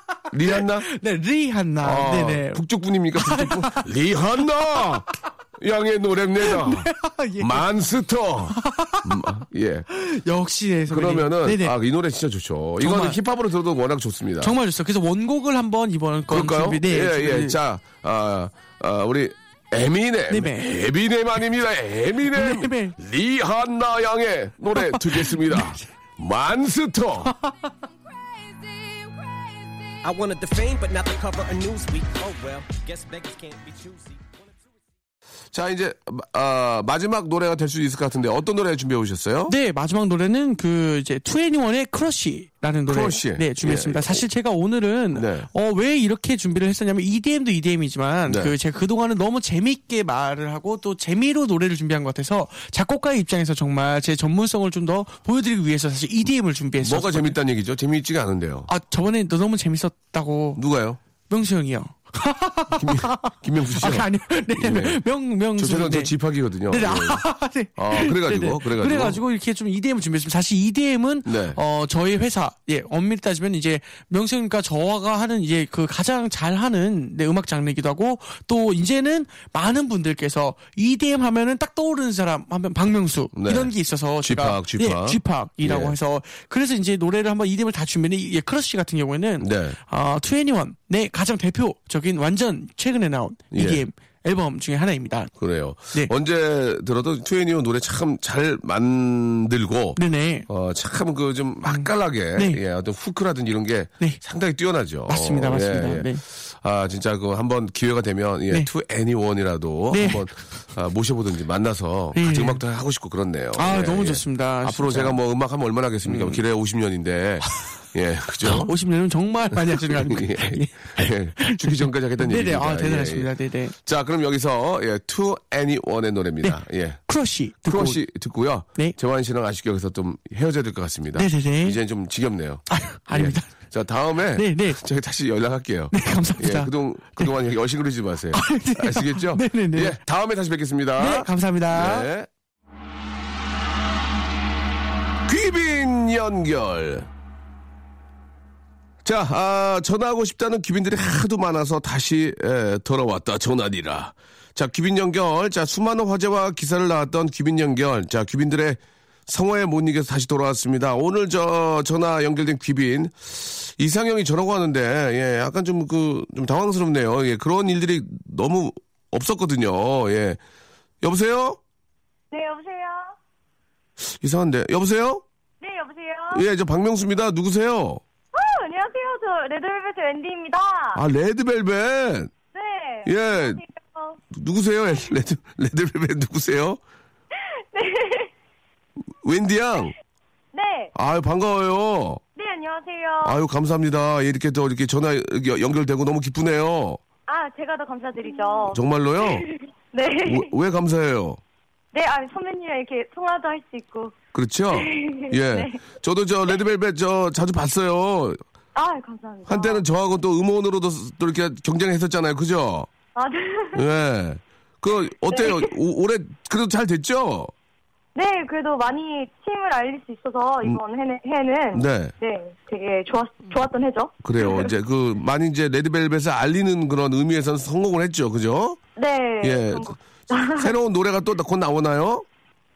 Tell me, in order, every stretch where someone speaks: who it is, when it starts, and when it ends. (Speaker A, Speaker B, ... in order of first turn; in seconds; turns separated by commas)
Speaker A: 0.3-0.9, Speaker B: 0.4-2.6, Speaker A: 1.8-9.8, Speaker B: 3.1-3.9, Speaker B: 6.4-7.6, Speaker B: 8.5-9.2, Speaker B: 9.9-11.8, Speaker A: 10.9-14.5, Speaker B: 12.8-13.2, Speaker B: 14.4-17.6, Speaker A: 16.3-27.3, Speaker B: 20.3-20.7, Speaker B: 22.3-22.9, Speaker B: 24.7-25.9, Speaker B: 27.2-27.7, Speaker C: 30.0-34.8, Speaker A: 35.5-39.5, Speaker B: 39.5-57.4, Speaker A: 42.9-44.2, Speaker A: 45.1-45.5, Speaker A: 48.3-48.5, Speaker A: 56.8-58.7, Speaker B: 58.7-60.6, Speaker A: 60.6-61.0, Speaker B: 61.3-66.1, Speaker A: 62.7-65.0, Speaker A: 65.5-67.2, Speaker B: 66.7-95.3, Speaker A: 67.7-69.2, Speaker A: 71.2-71.6, Speaker A: 83.3-86.0, Speaker A: 89.4-89.8, Speaker A: 93.5-93.8, Speaker A: 95.4-118.7, Speaker B: 100.0-100.5, Speaker B: 101.6-102.6, Speaker B: 105.1-106.2, Speaker B: 109.9-110.2, Speaker B: 112.1-112.6, Speaker B: 113.5-115.2, Speaker B: 116.0-116.4, Speaker B: 118.4-123.7, Speaker A: 119.5-123.3, Speaker A: 123.8-127.0, Speaker B: 126.4-128.0, Speaker A: 127.6-142.3, Speaker B: 131.1-131.8, Speaker B: 132.7-133.5, Speaker B: 134.3-134.8, Speaker B: 135.9-137.3, Speaker B: 138.3-140.0, Speaker B: 141.0-142.1, Speaker A: 145.2-147.1, Speaker A: 149.0-170.4, Speaker A: 171.0-171.6, Speaker D: 172.3-173.1, Speaker A: 174.0-175.2, Speaker D: 175.6-176.4, Speaker A: 176.3-178.0, Speaker D: 178.3-181.0, Speaker A: 180.9-182.3, Speaker D: 182.5-184.2, Speaker A: 183.0-183.6, Speaker A: 184.3-186.8, Speaker D: 187.3-188.3, Speaker A: 189.2-189.9, Speaker D: 190.5-190.9, Speaker A: 190.9-192.2, Speaker D: 192.3-193.4, Speaker A: 193.2-197.0, Speaker D: 197.3-200.5, Speaker A: 198.7-199.4, Speaker A: 200.2-201.4, Speaker D: 201.9-204.1, Speaker A: 204.3-208.4, Speaker D: 204.7-205.8, Speaker D: 208.7-209.8, Speaker A: 209.5-212.9, Speaker D: 213.1-213.8, Speaker A: 213.7-217.5, Speaker D: 215.3-215.8, Speaker D: 218.1-224.7, Speaker A: 221.7-222.1, Speaker A: 224.2-228.8, Speaker D: 228.9-230.7, Speaker A: 229.4-232.2